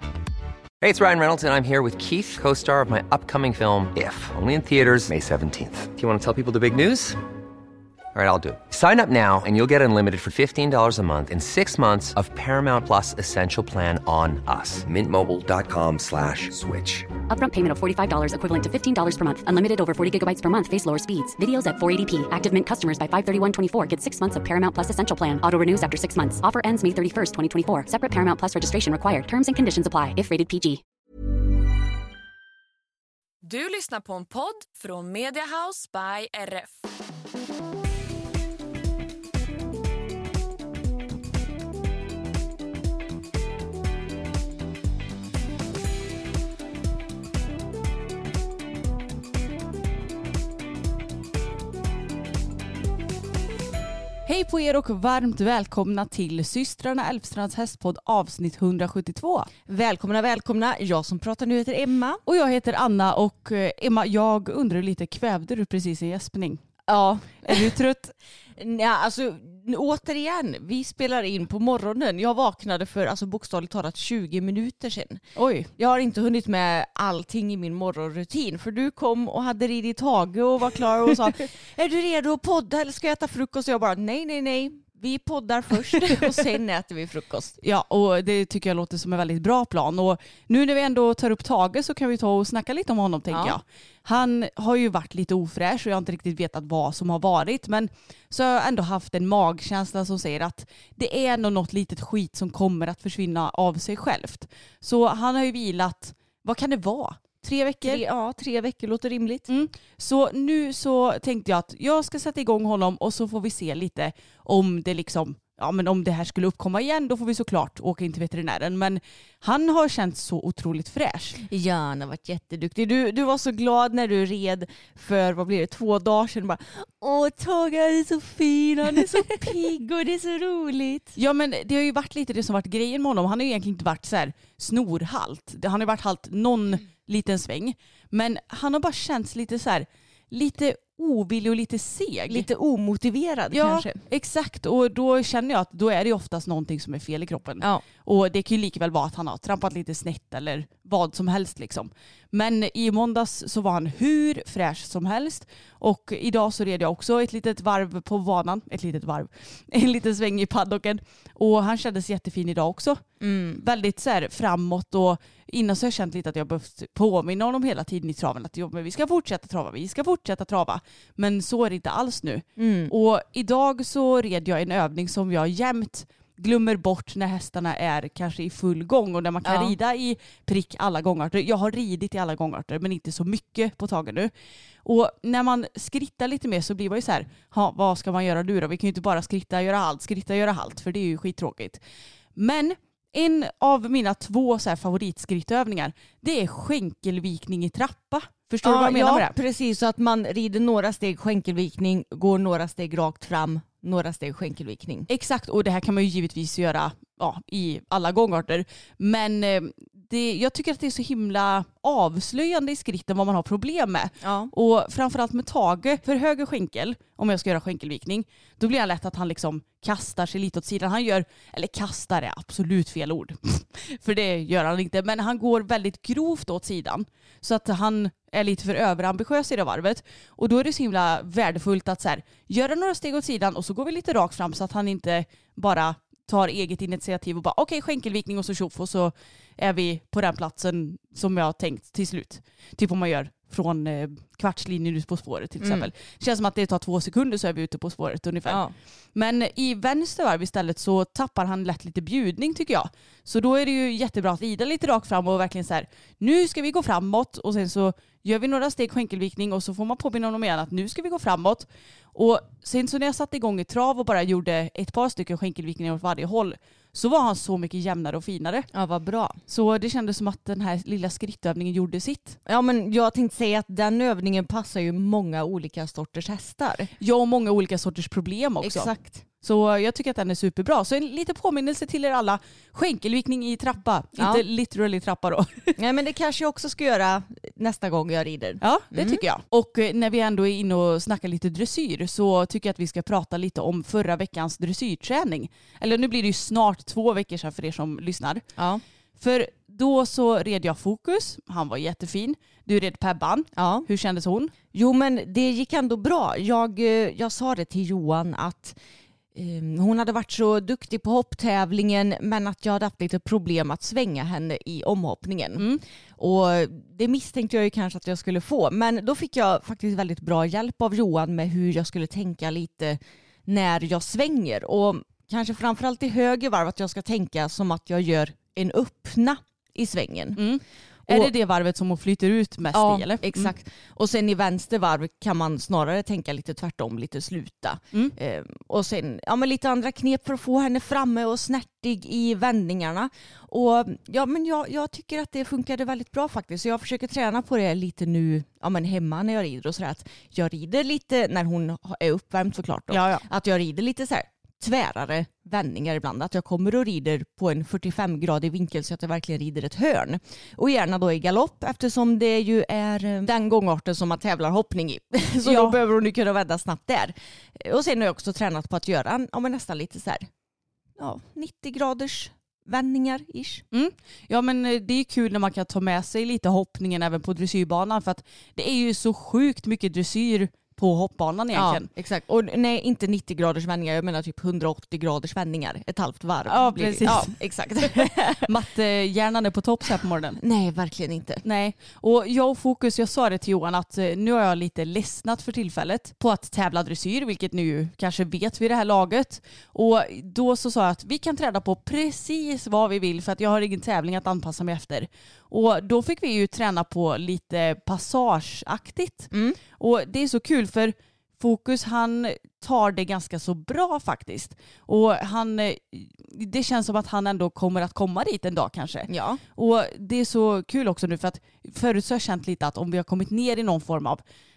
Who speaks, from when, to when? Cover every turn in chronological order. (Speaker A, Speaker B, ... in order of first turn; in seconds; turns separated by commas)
Speaker A: 0.8-7.2, Speaker A: 8.1-17.1, Speaker B: 17.3-30.8, Speaker C: 33.4-36.7, Speaker D: 54.3-59.5, Speaker E: 59.7-62.2, Speaker D: 62.3-66.6, Speaker E: 66.9-67.7, Speaker D: 67.4-68.1, Speaker E: 68.6-75.2, Speaker D: 75.4-75.7, Speaker E: 75.8-87.6, Speaker D: 87.6-108.0, Speaker E: 93.3-93.6, Speaker E: 107.8-109.5, Speaker D: 109.5-121.4, Speaker E: 121.4-131.1, Speaker D: 131.1-142.5, Speaker E: 142.3-144.0, Speaker D: 143.5-163.0, Speaker E: 163.2-163.6, Speaker D: 163.6-184.3, Speaker E: 172.6-172.9, Speaker E: 179.4-179.8, Speaker D: 184.8-191.8, Speaker D: 192.3-199.3, Speaker E: 198.6-205.1, Speaker D: 205.1-248.6, Speaker E: 214.2-214.5, Speaker E: 245.6-245.9, Speaker E: 248.4-248.7, Speaker D: 249.1-268.7, Speaker E: 268.7-269.4, Speaker D: 269.5-272.4, Speaker E: 272.4-276.9, Speaker D: 277.0-278.9, Speaker E: 278.6-279.2, Speaker D: 279.4-285.8, Speaker E: 284.2-284.4, Speaker E: 285.8-289.2, Speaker D: 288.6-298.4, Speaker E: 298.6-298.8, Speaker D: 299.2-304.5, Speaker E: 303.6-303.9, Speaker E: 304.7-308.8, Speaker E: 309.3-330.4, Speaker D: 330.4-333.5, Speaker E: 331.1-331.3, Speaker E: 332.7-370.3, Speaker D: 352.9-353.2, Speaker D: 365.4-365.8, Speaker E: 371.0-373.6, Speaker D: 373.7-381.9, Speaker E: 381.5-388.5, Speaker D: 386.4-387.4, Speaker D: 387.9-390.4, Speaker E: 390.4-391.4, Speaker D: 391.4-424.2, Speaker E: 409.3-409.6, Speaker E: 419.1-419.4